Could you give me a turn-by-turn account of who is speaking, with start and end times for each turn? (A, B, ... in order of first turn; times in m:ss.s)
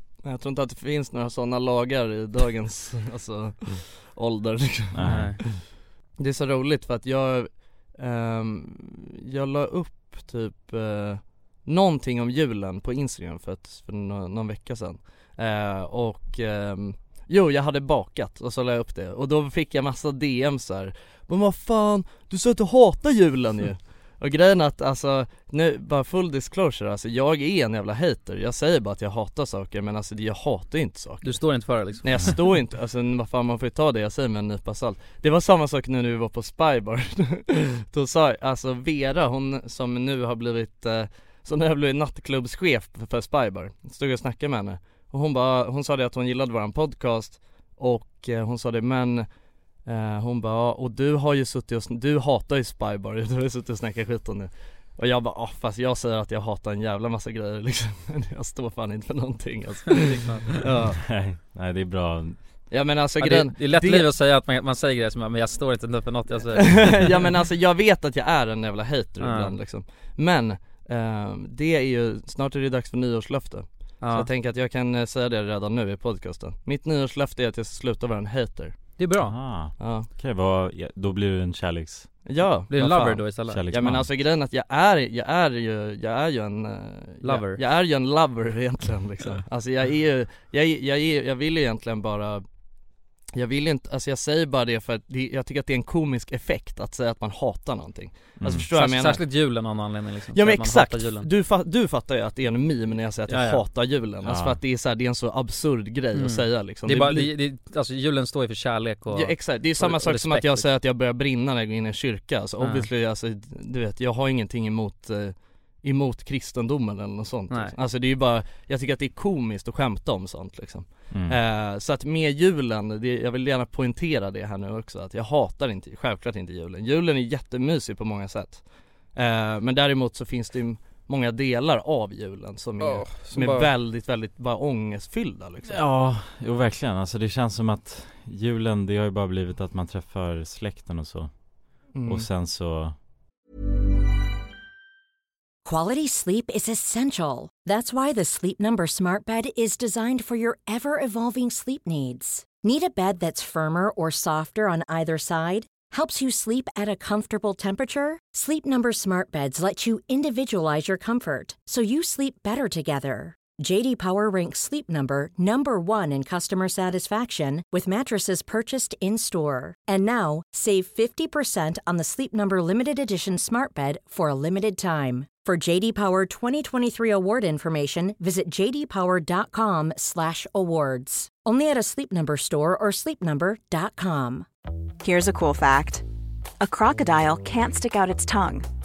0:00.2-0:05.6 A
0:04.9-0:05.3 B
0:05.0-0:05.4 C
0:06.2-0:49.3 A
0:31.2-0:32.4 C
0:49.8-1:01.0 A
0:59.9-1:00.5 C
1:00.9-1:02.4 B
1:02.7-1:04.1 A
1:03.2-1:07.1 C
1:06.5-1:18.9 A
1:09.2-1:09.5 C
1:14.0-1:14.3 C
1:19.0-1:19.4 C
1:19.2-1:22.2 B
1:19.8-1:20.1 A
1:22.2-1:32.4 A
1:22.7-1:23.6 C
1:23.5-1:24.1 B
1:27.2-1:27.6 C
1:33.3-1:39.2 A
1:38.4-1:38.7 B
1:38.7-1:41.3 C
1:40.3-1:47.3 A
1:43.3-1:43.6 C
1:44.2-1:44.6 B
1:46.1-1:50.7 C
1:49.1-2:15.8 A
1:52.6-1:52.9 C
1:57.5-1:57.7 C
2:01.1-2:01.4 B
2:12.8-2:13.7 C
2:15.6-2:22.9 B
2:21.9-2:22.3 A
2:25.6-3:04.4 D
3:05.0-3:06.0 E
3:06.6-3:08.6 E